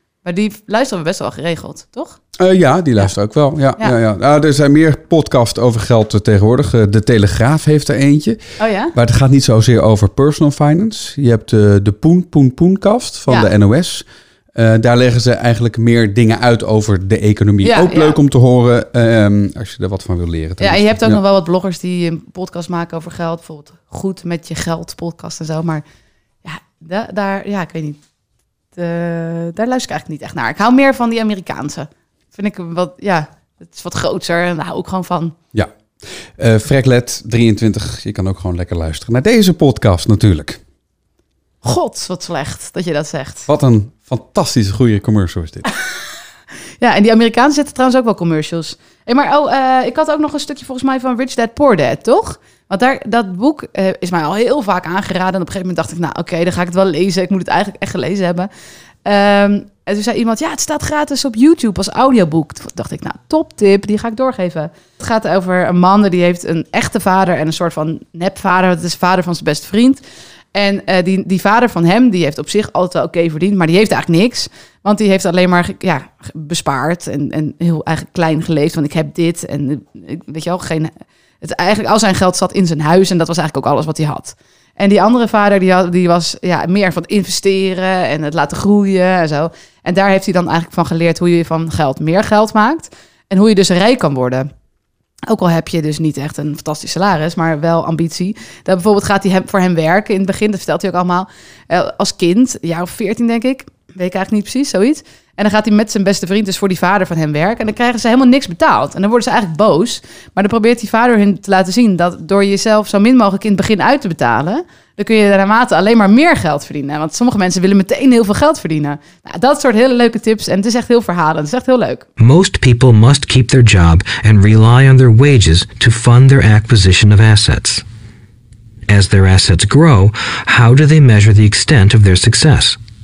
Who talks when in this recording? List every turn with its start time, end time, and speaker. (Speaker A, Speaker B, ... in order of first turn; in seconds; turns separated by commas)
Speaker A: 0.2-2.2, Speaker B: 2.4-8.4, Speaker A: 8.6-8.9, Speaker B: 8.9-21.2, Speaker A: 17.6-18.2, Speaker A: 20.6-25.8, Speaker A: 26.4-28.0, Speaker A: 28.8-35.4, Speaker B: 36.4-40.6, Speaker A: 41.6-43.5, Speaker B: 43.5-45.7, Speaker A: 46.8-58.5, Speaker A: 59.0-70.0, Speaker A: 70.5-94.5, Speaker A: 95.3-122.1, Speaker C: 122.2-127.8, Speaker C: 128.9-132.8